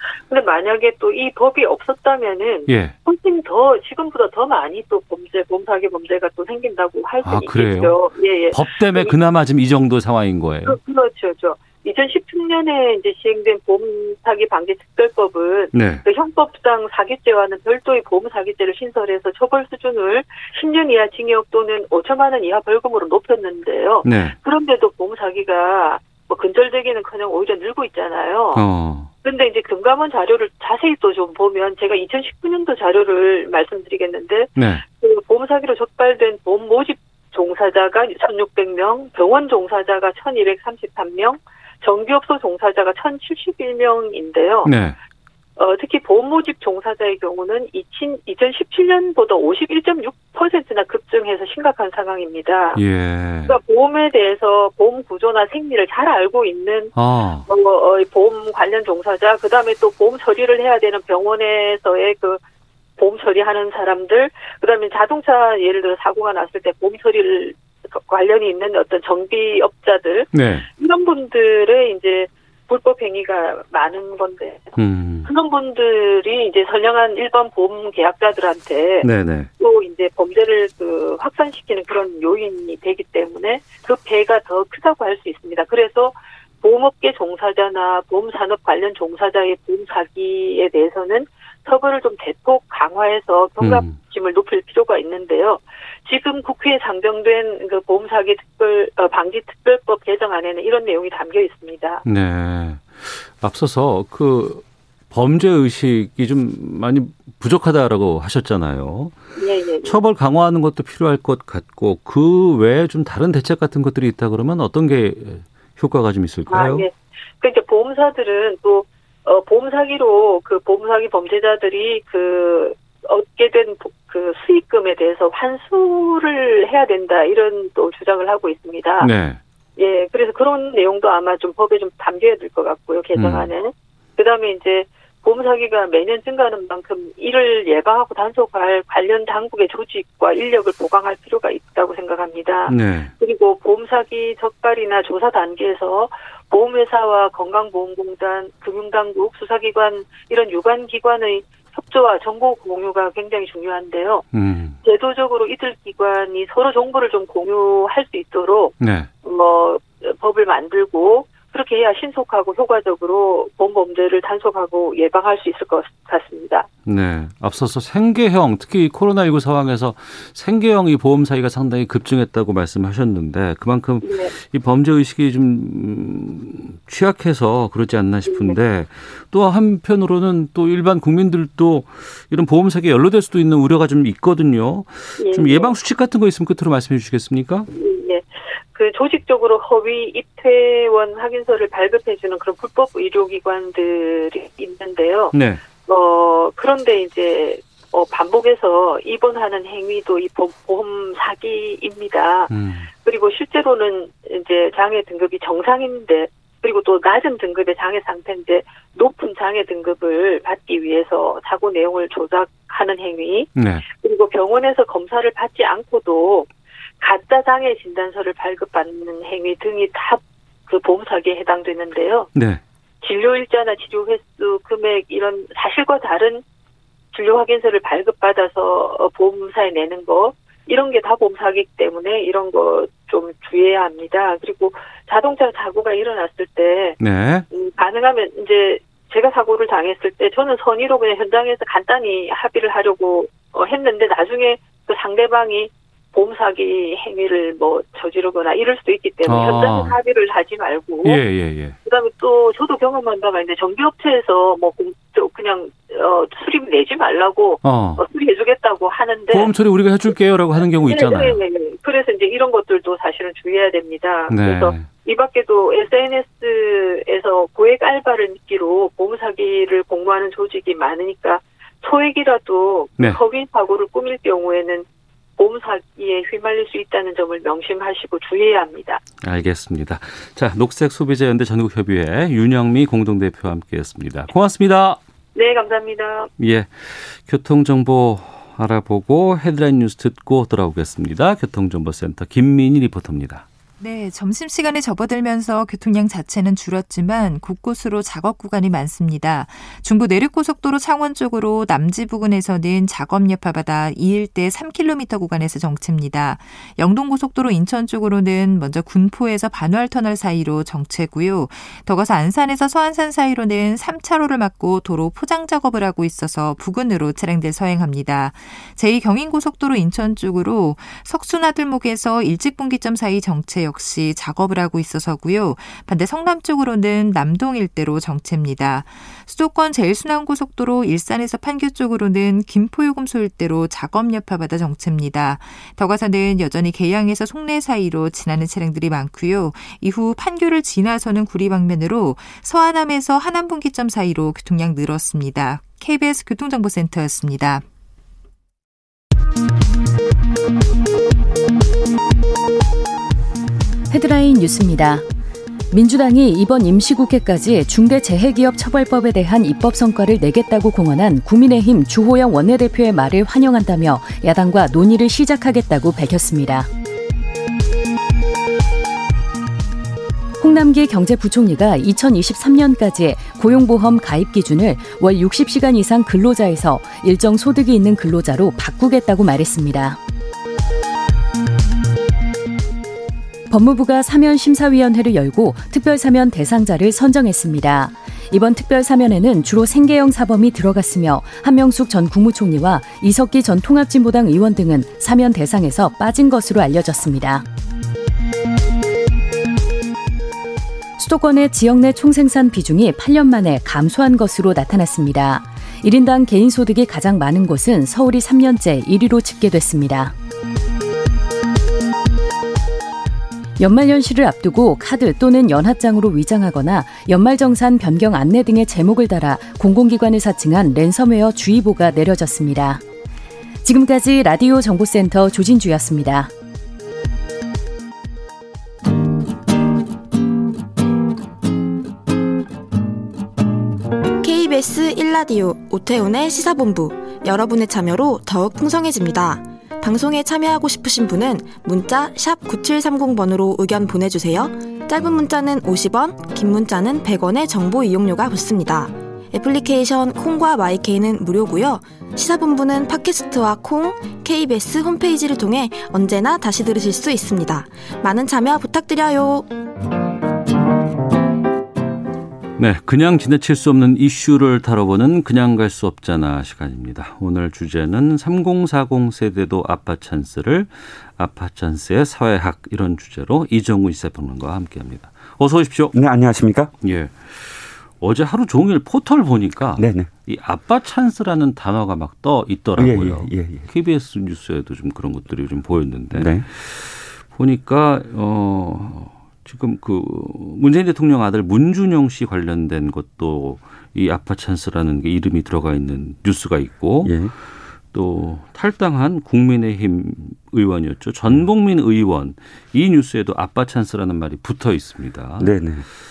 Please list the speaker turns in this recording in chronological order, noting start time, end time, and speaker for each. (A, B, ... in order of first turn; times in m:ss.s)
0:00.3-0:09.2 A
0:02.7-0:03.0 B
0:07.2-0:08.0 B
0:08.5-0:10.8 B
0:10.6-0:28.6 A
0:15.7-0:16.0 B
0:24.0-0:24.4 B
0:28.5-0:29.1 B
0:29.2-0:44.7 A
0:34.6-0:34.8 B
0:44.6-0:45.0 B
0:45.6-0:52.8 A
0:52.8-0:53.6 B
0:53.5-0:56.9 A
0:56.9-0:57.5 B
0:57.4-1:02.4 A
1:03.0-1:19.1 A
1:10.3-1:10.7 B
1:14.8-1:15.3 B
1:19.0-1:19.5 B
1:19.6-1:42.0 A
1:33.6-1:33.9 B
1:42.0-1:49.2 B
1:49.4-1:50.0 A
1:49.8-1:56.9 B
1:56.5-2:09.1 A
2:09.0-2:09.4 B
2:09.8-2:34.2 A
2:13.2-2:13.5 B
2:22.7-2:23.1 B
2:34.3-2:34.8 B
2:34.8-2:46.7 A
2:38.8-2:39.1 B
2:46.9-3:07.7 B
2:54.0-2:54.3 A
2:58.2-2:58.6 A
3:05.2-3:05.7 A
3:07.7-3:15.3 A
3:15.3-3:15.6 B
3:15.8-3:36.5 A
3:22.5-3:22.9 B
3:33.6-3:33.8 B
3:37.0-3:42.3 A
3:42.4-3:42.6 B
3:43.0-3:46.4 A
3:47.1-3:57.0 A
3:57.0-3:57.4 B
3:57.5-4:11.2 A
4:09.2-4:10.0 B
4:11.0-4:11.8 B
4:11.8-4:19.5 A
4:17.6-4:18.0 B
4:19.3-4:21.4 B
4:20.9-4:34.8 A
4:24.3-4:24.9 B
4:35.4-4:39.0 A
4:39.2-4:45.0 B
4:45.4-4:46.3 A
4:46.4-4:53.4 B
4:53.8-5:47.6 C
5:53.9-5:55.0 D
5:55.7-6:06.7 D
6:10.4-6:20.0 D
6:23.5-6:37.4 D
6:41.0-6:50.1 D
6:53.6-7:02.8 D
7:03.6-7:06.3 D
7:14.2-7:39.5 E
7:42.6-7:55.9 B
7:55.9-7:56.7 F
7:56.8-8:17.2 B
7:59.8-8:00.1 F
8:02.8-8:03.6 F
8:06.1-8:06.5 F
8:17.0-8:17.3 F
8:17.9-8:25.5 B
8:25.4-8:25.8 F